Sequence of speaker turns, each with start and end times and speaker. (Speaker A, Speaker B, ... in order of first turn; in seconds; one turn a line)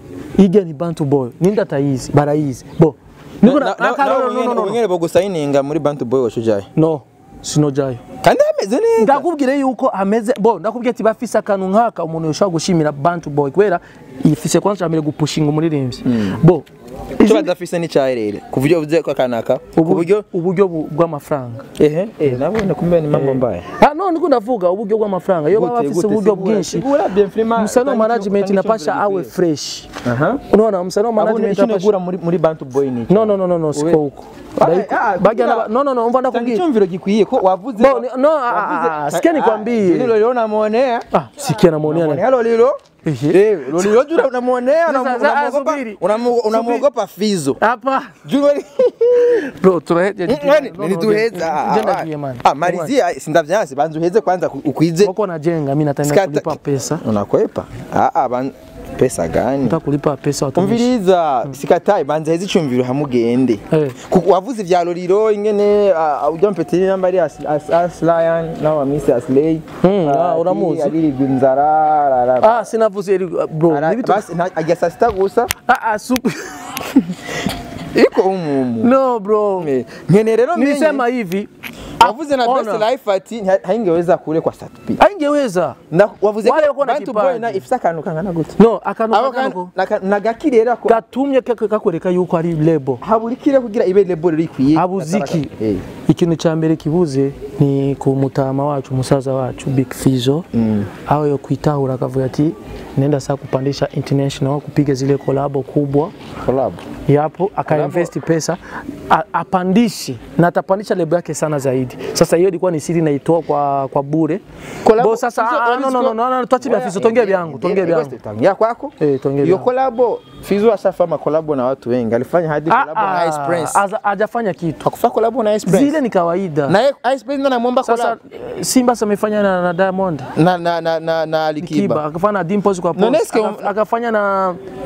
Speaker A: 0.4-4.8
Speaker B: 3.4-6.7
Speaker A: 6.8-8.0
Speaker B: 8.2-9.2
Speaker A: 9.0-17.5
Speaker B: 16.0-16.4
Speaker B: 17.2-20.2
Speaker A: 19.8-21.7
Speaker B: 21.8-23.6
Speaker A: 23.1-26.9
Speaker B: 25.5-29.3
Speaker A: 27.6-31.9
Speaker B: 30.0-30.4
Speaker B: 31.2-34.0
Speaker A: 33.1-36.6
Speaker B: 34.6-35.7
Speaker B: 36.3-41.1
Speaker A: 37.8-40.2
Speaker A: 41.1-42.2
Speaker B: 41.8-42.8
Speaker A: 43.0-44.1
Speaker B: 43.3-47.6
Speaker A: 44.8-46.9
Speaker A: 47.6-48.2
Speaker B: 48.2-49.5
Speaker A: 49.1-52.9
Speaker B: 50.3-55.1
Speaker A: 55.0-57.0
Speaker B: 56.0-59.8
Speaker A: 59.6-60.9
Speaker B: 60.6-72.7
Speaker A: 63.7-64.0
Speaker A: 69.8-71.0
Speaker A: 72.4-74.3
Speaker B: 73.7-75.5
Speaker A: 75.7-77.1
Speaker B: 77.9-78.9
Speaker A: 78.8-79.7
Speaker B: 79.6-81.0
Speaker A: 80.5-82.9
Speaker B: 82.0-85.0
Speaker A: 85.0-85.8
Speaker B: 85.9-88.6
Speaker A: 86.4-87.6
Speaker A: 88.6-89.7
Speaker B: 89.1-91.0
Speaker A: 90.9-93.0
Speaker B: 93.0-95.9
Speaker A: 94.7-95.5
Speaker A: 96.1-100.5
Speaker B: 100.5-100.9
Speaker A: 101.0-106.1
Speaker B: 106.4-106.8
Speaker A: 107.1-114.4
Speaker B: 107.7-108.1
Speaker B: 114.8-123.8
Speaker A: 115.0-118.1
Speaker A: 119.0-119.7
Speaker A: 122.7-124.8
Speaker B: 124.8-126.0
Speaker A: 125.7-126.8
Speaker B: 126.7-128.2
Speaker A: 127.8-130.3
Speaker B: 130.4-132.0
Speaker A: 131.6-134.6
Speaker B: 132.9-133.7